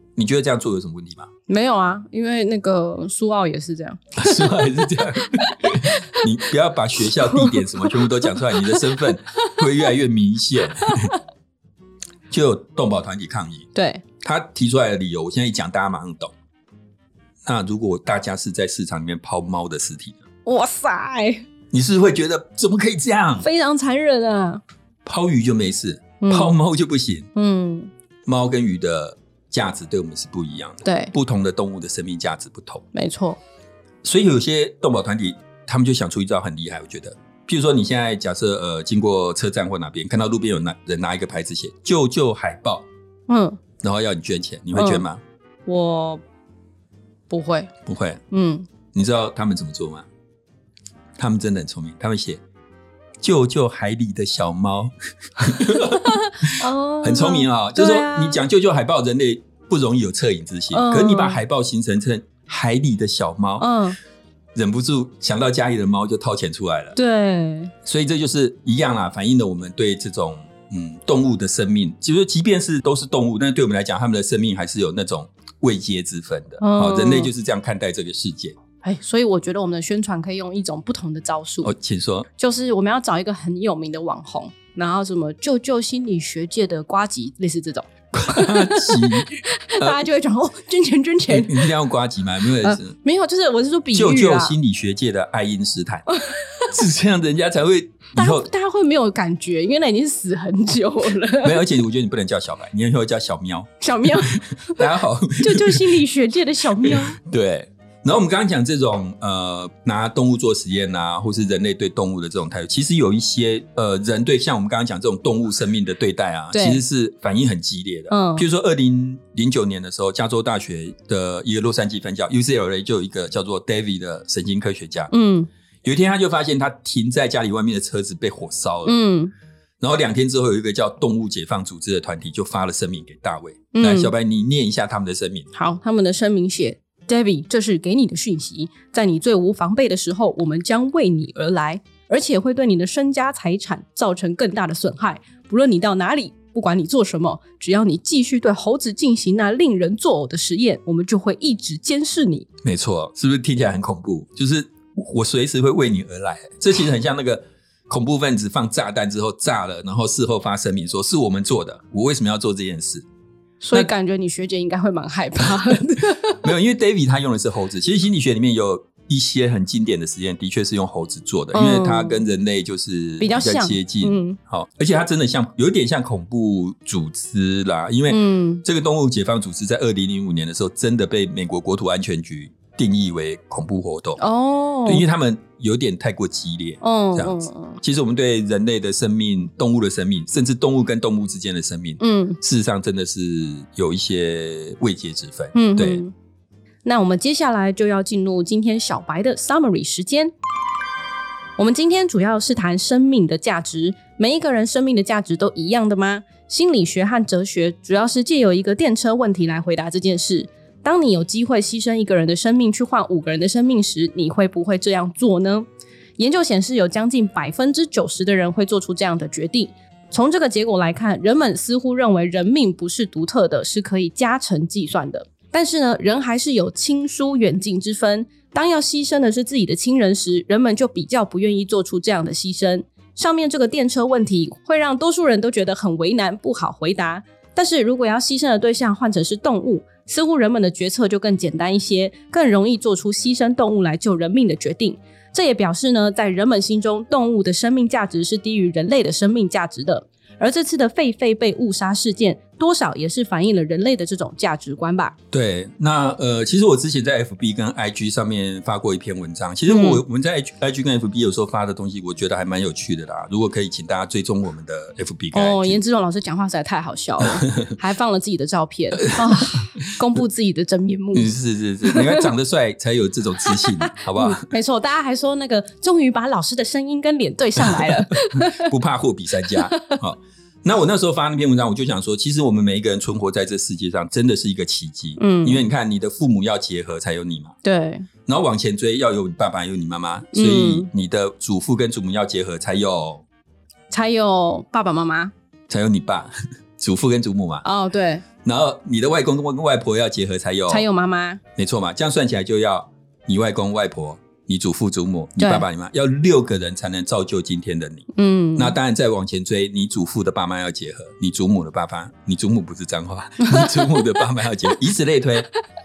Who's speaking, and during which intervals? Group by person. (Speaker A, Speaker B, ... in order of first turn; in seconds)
Speaker A: 0.1-1.3, 4.2-11.1, 12.3-13.7, 14.2-16.3, 17.4-20.2, 21.7-23.4, 25.0-27.3, 28.2-32.8, 34.0-42.9, 43.8-45.2, 47.8-48.2, 48.9-50.0, 51.2-52.4, 53.2-63.7, 64.5-66.9, 67.8-78.5, 81.6-82.3, 88.1-90.0, 91.3-92.9, 93.9-96.0, 96.7-98.5, 101.4-106.0, 106.8-125.1, 125.8-129.0, 129.8-135.5, 152.6-163.0, 165.6-184.2, 184.8-196.0, 255.3-265.8, 267.2-267.7, 269.1-269.5, 271.1-274.4, 277.6-287.6, 288.2-293.2, 295.7-297.6, 298.4-300.9, 301.6-315.5
Speaker B: 1.5-4.8, 5.5-6.2, 7.0-9.6, 10.8-11.2, 13.7-14.0, 20.4-21.4, 23.4-24.6, 26.2-26.6, 27.3-27.9, 30.8-31.1, 32.9-33.4, 43.3-43.6, 44.7-45.0, 45.6-46.2, 47.3-47.7, 48.3-48.7, 56.0-58.4, 60.7-61.4, 63.6-64.0, 66.9-67.7, 76.6-77.3, 78.8-81.7, 82.4-91.7, 92.6-94.5, 96.1-96.7, 98.1-101.6, 103.8-104.8, 105.4-107.2, 116.5-116.8, 118.1-118.4, 125.1-125.5, 128.8-129.3, 133.7-134.1, 135.5-152.5, 163.6-166.4, 171.5-172.2, 173.2-174.4, 178.1-178.6, 184.2-185.0, 186.8-187.8, 192.0-192.4, 195.5-196.1, 196.8-200.3, 201.6-215.7, 216.2-255.1, 259.7-260.0, 265.3-271.3, 271.8-272.3, 273.4-278.7, 279.5-280.0, 285.2-285.6, 287.6-288.1, 290.3-290.9, 293.9-295.3, 297.6-298.2, 300.7-301.4, 305.4-305.6, 308.1-308.8, 313.4-314.2